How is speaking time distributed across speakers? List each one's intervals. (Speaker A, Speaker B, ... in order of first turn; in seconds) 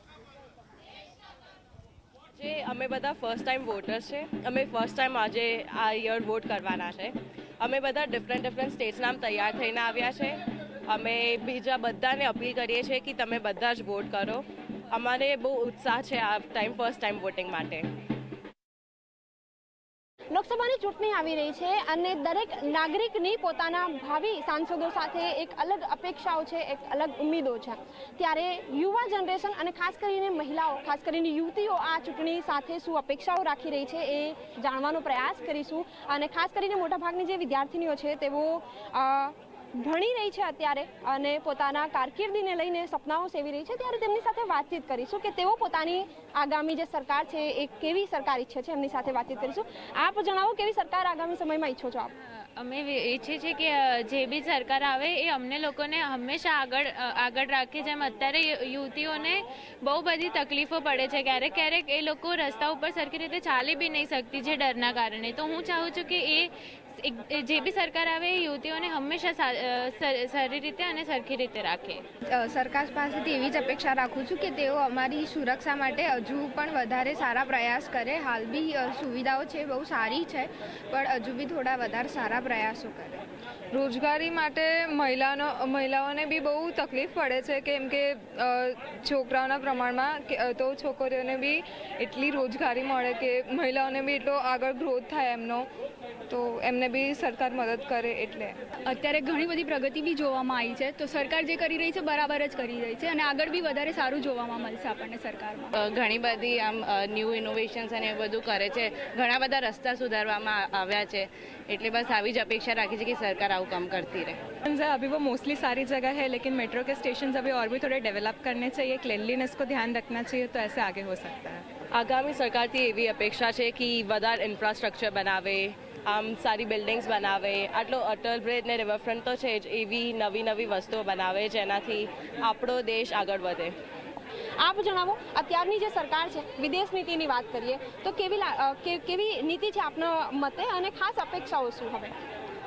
Speaker A: 2.4-10.4, 10.9-17.9, 121.9-133.7
Speaker B: 20.3-52.1, 134.6-142.1
Speaker C: 52.5-72.0
Speaker D: 72.3-83.2
Speaker E: 83.7-95.7, 96.3-98.6
Speaker F: 98.8-105.7
Speaker G: 105.8-114.4
Speaker H: 114.6-121.6